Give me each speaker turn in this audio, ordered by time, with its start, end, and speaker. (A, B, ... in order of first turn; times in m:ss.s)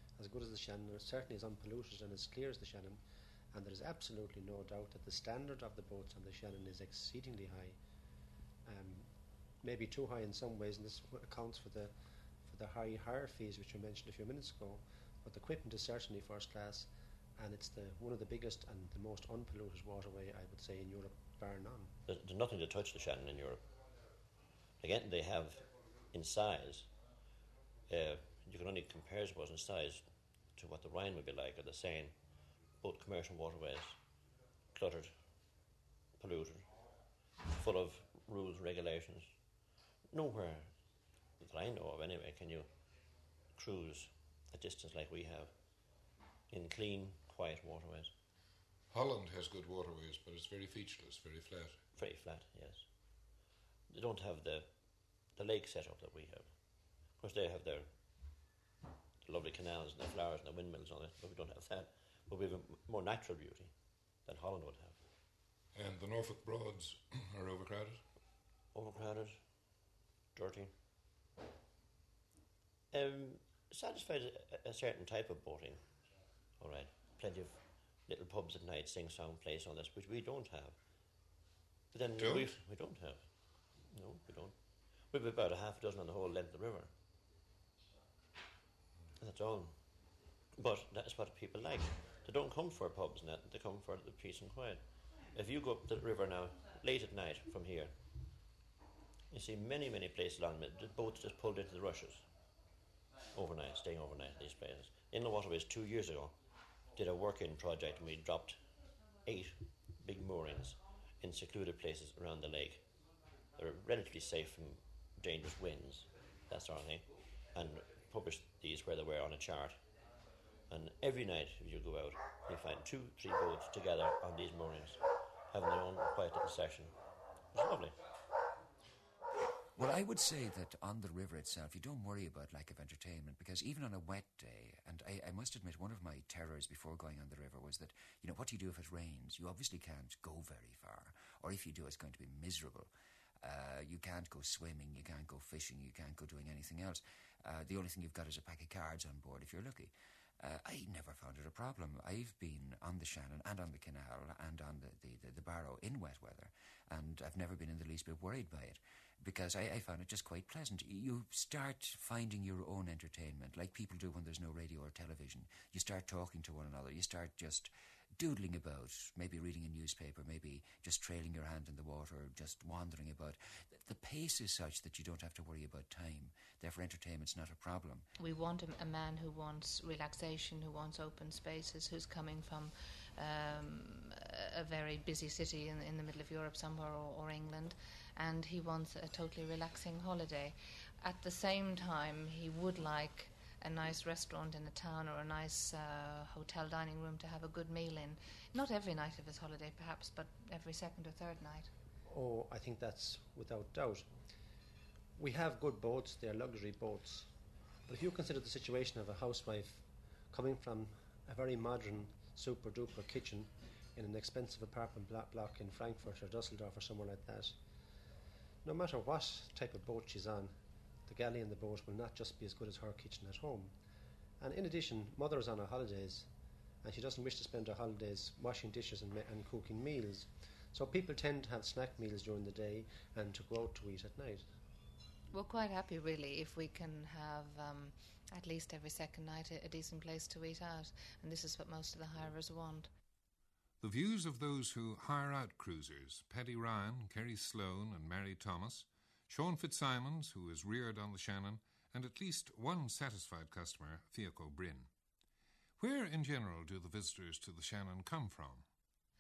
0:00.2-0:03.0 A
0:03.5-0:07.8 A
0:08.6-0:09.1 A
0:09.6-0:11.9 A
0:12.5-0:21.9 A
0:22.1-0:23.6 B
0:24.8-0:26.9 B
0:27.9-0:32.2 B
0:32.8-0:34.0 B
0:34.8-0:35.2 B
0:36.2-0:36.7 B
0:37.4-0:39.4 B
0:40.1-0:40.7 B
0:41.4-0:42.7 B
0:43.6-0:45.5 B
0:46.5-0:48.1 B
0:48.9-0:51.8 C
0:52.0-0:52.9 B
0:53.9-0:54.7 B
0:55.4-0:56.5 B
0:57.2-0:57.9 B
0:59.2-1:03.7 B
1:04.3-1:05.0 B
1:05.7-1:08.0 C
1:08.7-1:09.4 B
1:10.4-1:10.7 B
1:12.9-1:15.8 B
1:16.6-1:20.8 B
1:21.9-1:23.3 B
1:22.2-1:22.5 C
1:23.9-1:24.6 B
1:25.1-1:26.9 B
1:29.2-1:29.8 B
1:30.6-1:38.0 B
1:39.3-1:42.3 B
1:43.3-1:46.4 B
1:47.0-1:48.6 B
1:49.3-1:52.8 B
1:53.6-1:59.8 B
2:00.7-2:07.0 B
2:07.5-2:08.0 B
2:09.8-2:22.9 D
2:23.4-2:58.0 D
2:58.2-3:21.7 E
3:22.1-3:24.1 A
3:25.2-3:27.3 A
3:27.9-3:37.6 A
3:38.6-3:40.6 A
3:41.1-3:43.7 A
3:44.4-3:46.3 A
3:46.8-3:54.4 A
3:55.3-4:02.9 E
4:03.8-4:14.9 C
4:15.8-4:18.6 C